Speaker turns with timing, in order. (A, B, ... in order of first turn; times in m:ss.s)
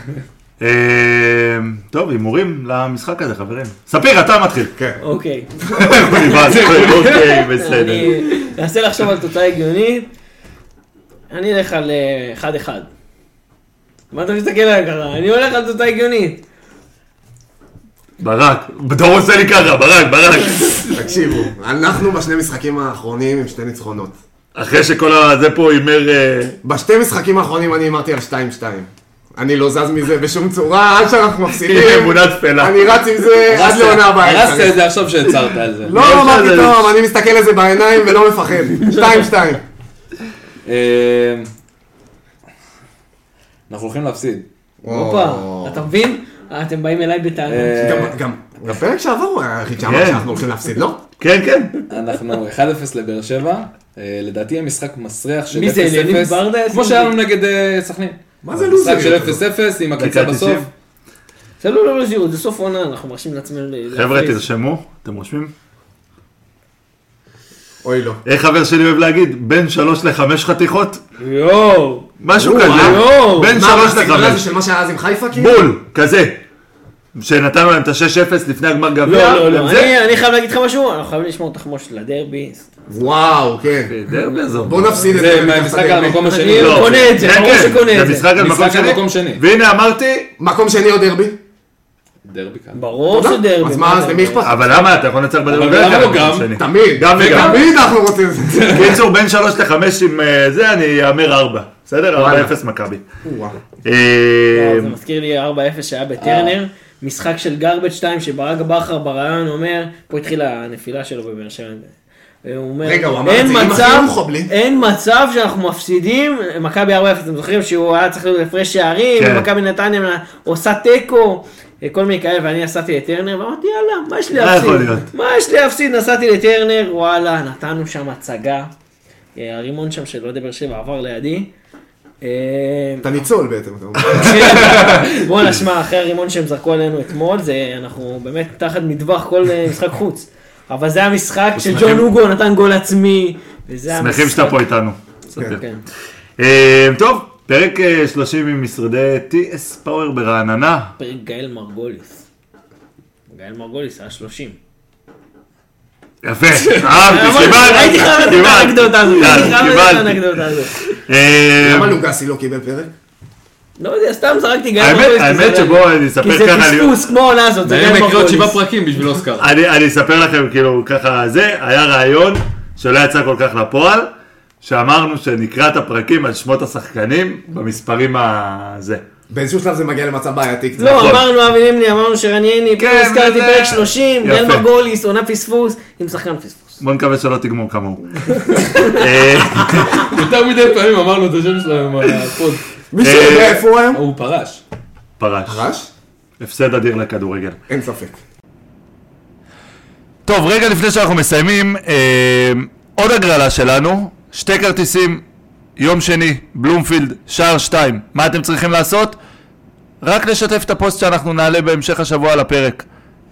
0:00.6-0:04.7 A
0:05.0-0:05.5 B
0:05.6-0:06.4 C
0:05.7-0:08.3 A
0:06.3-0:07.5 D
0:06.6-0:10.1 B
0:11.3-0:12.9 B
0:14.1-0:16.4 B
0:18.2-0:21.1 A
0:20.9-0:24.2 C
0:24.6-0:26.6 A
0:26.6-0:34.8 C
0:31.6-0:32.8 A
0:33.5-0:36.0 D
0:35.8-0:39.6 C
0:35.9-0:37.0 A
0:40.6-0:41.5 D
0:43.7-0:44.5 D
0:44.8-0:45.9 C
0:44.8-0:47.8 B
0:47.5-0:48.2 D
0:47.8-0:51.0 C
0:49.8-0:50.3 A
0:51.2-0:51.8 A
0:51.9-0:58.2 D
0:55.5-0:57.1 B
0:58.4-0:59.4 C
0:58.5-0:59.2 A
0:58.7-1:00.6 D
1:00.0-1:00.7 A
1:01.6-1:04.4 B
1:03.9-1:05.5 A
1:07.8-1:08.2 C
1:08.3-1:11.0 A
1:11.2-1:12.1 B
1:12.2-1:14.4 A
1:12.4-1:15.7 C
1:12.6-1:13.5 B
1:15.3-1:16.4 A
1:17.1-1:20.0 A
1:19.0-1:22.7 B
1:22.9-1:23.9 C
1:23.9-1:25.0 A
1:24.6-1:26.2 C
1:25.1-1:27.2 D
1:26.2-1:28.3 B
1:26.5-1:30.3 A
1:28.4-1:29.4 D
1:30.4-1:31.4 C
1:32.2-1:32.8 D
1:32.7-1:34.5 B
1:33.1-1:34.7 C
1:34.4-1:37.6 A
1:35.4-1:36.6 D
1:36.6-1:39.0 C
1:37.1-1:37.8 D
1:38.5-1:39.0 D
1:38.7-1:43.0 A
1:42.1-1:42.5 C
1:43.2-1:43.6 C
1:43.8-1:44.9 A
1:44.5-1:51.9 B
1:46.2-1:46.6 D
1:52.4-2:08.7 B
1:52.8-1:54.5 C
1:59.2-1:59.5 A
2:04.3-2:05.1 A
2:09.4-2:11.5 B
2:12.2-2:13.1 B
2:13.0-2:15.0 C
2:14.1-2:24.6 B
2:14.1-2:15.1 D
2:21.6-2:22.1 A
2:23.9-2:25.6 A
2:25.4-2:25.8 B
2:26.4-2:30.9 A
2:31.0-2:32.2 B
2:33.3-2:34.6 B
2:36.2-2:42.0 A
2:36.8-2:40.8 B
2:36.9-2:37.6 D
2:41.6-2:42.9 C
2:43.8-2:48.6 B
2:44.8-2:46.9 A
2:47.6-2:49.5 D
2:49.4-2:54.1 A
2:54.6-2:59.0 A
2:59.3-3:01.2 C
3:00.8-3:06.8 B
3:00.9-3:01.2 A
3:02.8-3:04.6 A
3:06.8-3:10.1 A
3:08.3-3:09.0 B
3:09.9-3:12.6 D
3:12.9-3:14.0 C
3:13.0-3:13.6 A
3:13.2-3:14.6 D
3:15.2-3:15.7 A
3:15.5-3:15.9 C
3:16.4-3:17.6 A
3:17.7-3:18.2 C
3:20.2-3:25.2 A
3:25.8-3:29.2 A
3:30.0-3:32.9 A